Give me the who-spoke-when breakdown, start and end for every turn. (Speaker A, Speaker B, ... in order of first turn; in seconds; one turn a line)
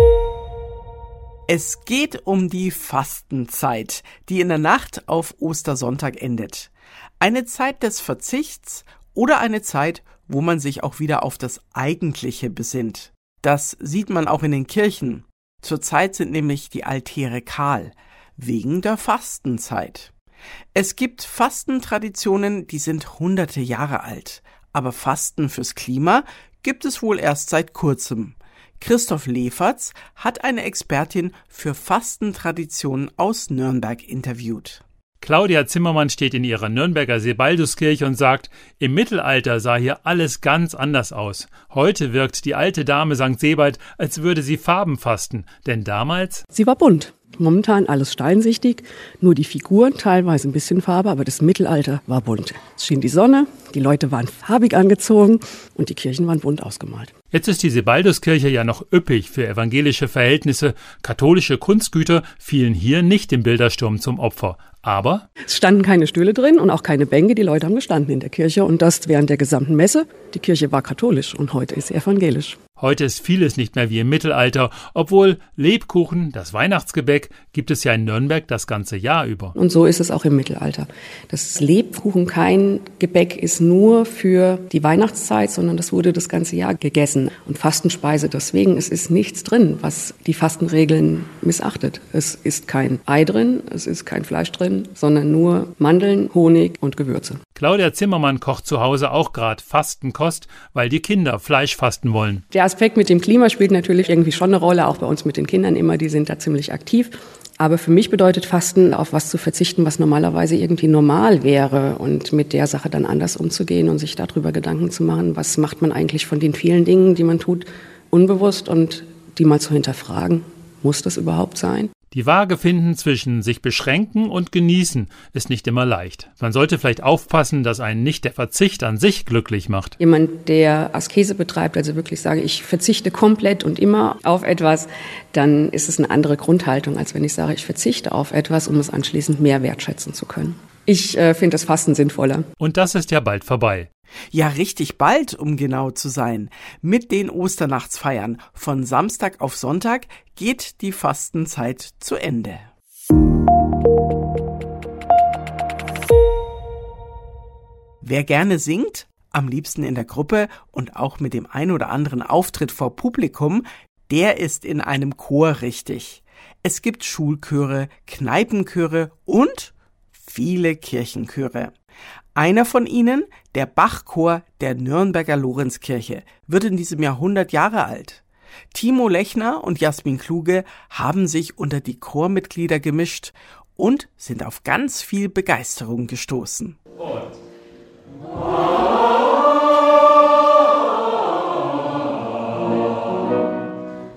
Speaker A: 1.5-20.1
Speaker A: 20.7-34.8
Speaker B: 35.2-46.4
Speaker C: 46.5-57.1
Speaker B: 57.3-65.2
Speaker C: 65.5-72.5
Speaker B: 72.8-79.5
Speaker C: 79.6-97.4
Speaker B: 97.5-102.4
Speaker C: 102.5-121.9
Speaker B: 122.1-129.9
Speaker C: 130.0-142.5
Speaker B: 142.6-143.9
Speaker A: 144.3-152.7
Speaker A: 158.0-171.7
Speaker A: 172.3-178.2
Speaker A: 178.7-186.8